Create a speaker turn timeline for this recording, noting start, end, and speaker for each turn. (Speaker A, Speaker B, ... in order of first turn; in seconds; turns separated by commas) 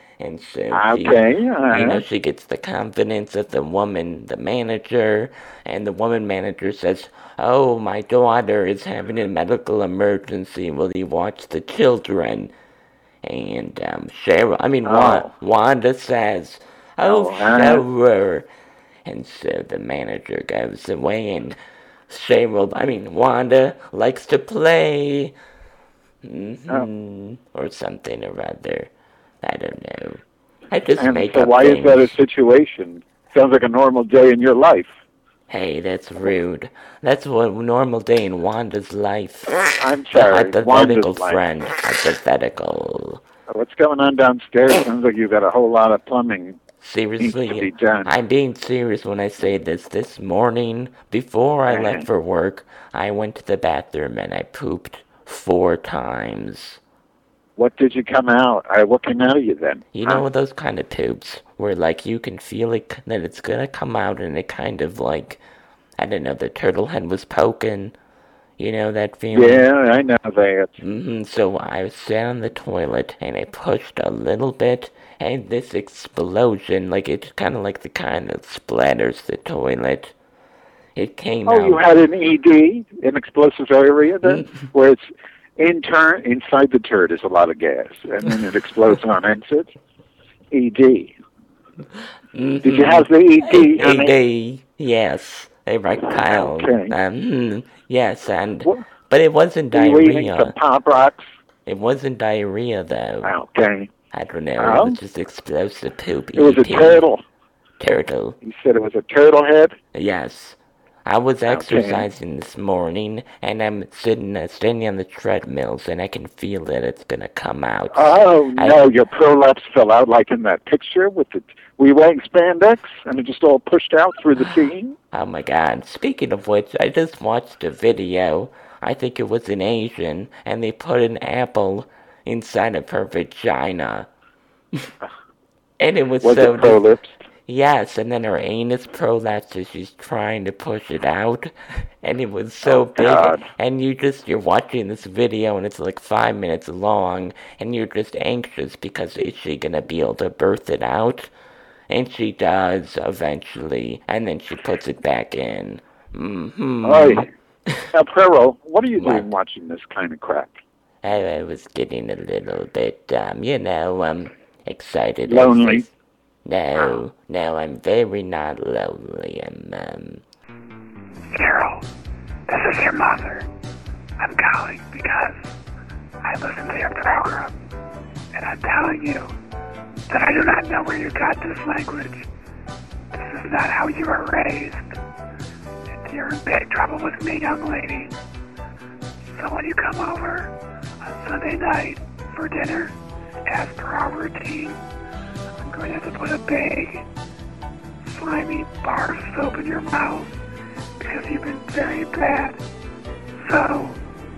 Speaker A: 0.2-1.2, Speaker B: 0.7-2.0, Speaker A: 1.7-12.5, Speaker A: 13.2-18.5, Speaker B: 14.8-15.3, Speaker B: 17.0-17.9, Speaker A: 19.1-21.6, Speaker A: 22.1-25.3, Speaker A: 26.2-28.9, Speaker A: 29.4-32.1, Speaker B: 31.0-34.9, Speaker A: 35.5-43.2, Speaker B: 39.8-41.4, Speaker B: 43.5-46.6, Speaker A: 46.8-56.8, Speaker B: 47.2-48.1, Speaker B: 51.7-52.1, Speaker B: 57.6-60.2, Speaker A: 59.9-65.4, Speaker A: 66.0-67.9, Speaker A: 68.6-69.7, Speaker B: 69.3-70.8, Speaker A: 70.8-80.1, Speaker A: 81.0-81.8, Speaker B: 81.5-89.7, Speaker B: 90.5-91.1, Speaker A: 92.3-100.5, Speaker B: 92.6-94.1, Speaker B: 96.1-97.0, Speaker B: 99.7-101.2, Speaker A: 101.7-103.3, Speaker B: 103.2-103.9, Speaker A: 104.1-107.0, Speaker B: 104.6-105.0, Speaker B: 106.3-107.2, Speaker A: 107.8-108.4, Speaker B: 108.4-109.8, Speaker A: 109.9-118.8, Speaker B: 111.5-112.1, Speaker B: 117.9-125.0, Speaker A: 125.1-134.1, Speaker A: 135.8-136.8, Speaker B: 136.2-137.2, Speaker A: 137.5-151.3, Speaker B: 142.6-143.5, Speaker A: 151.9-157.8, Speaker B: 156.8-157.3, Speaker B: 157.9-160.6, Speaker A: 159.0-159.3, Speaker A: 161.0-165.9, Speaker B: 165.3-165.9, Speaker A: 166.4-170.2, Speaker C: 171.3-171.8, Speaker C: 172.5-173.5, Speaker C: 174.2-175.5, Speaker C: 176.2-177.6, Speaker C: 178.3-179.3, Speaker C: 180.1-182.3, Speaker C: 183.1-184.9, Speaker C: 185.9-188.2, Speaker C: 189.4-190.5, Speaker C: 191.1-192.9, Speaker C: 193.5-194.8, Speaker C: 195.6-197.1, Speaker C: 198.1-200.3, Speaker C: 201.0-202.6, Speaker C: 203.4-204.0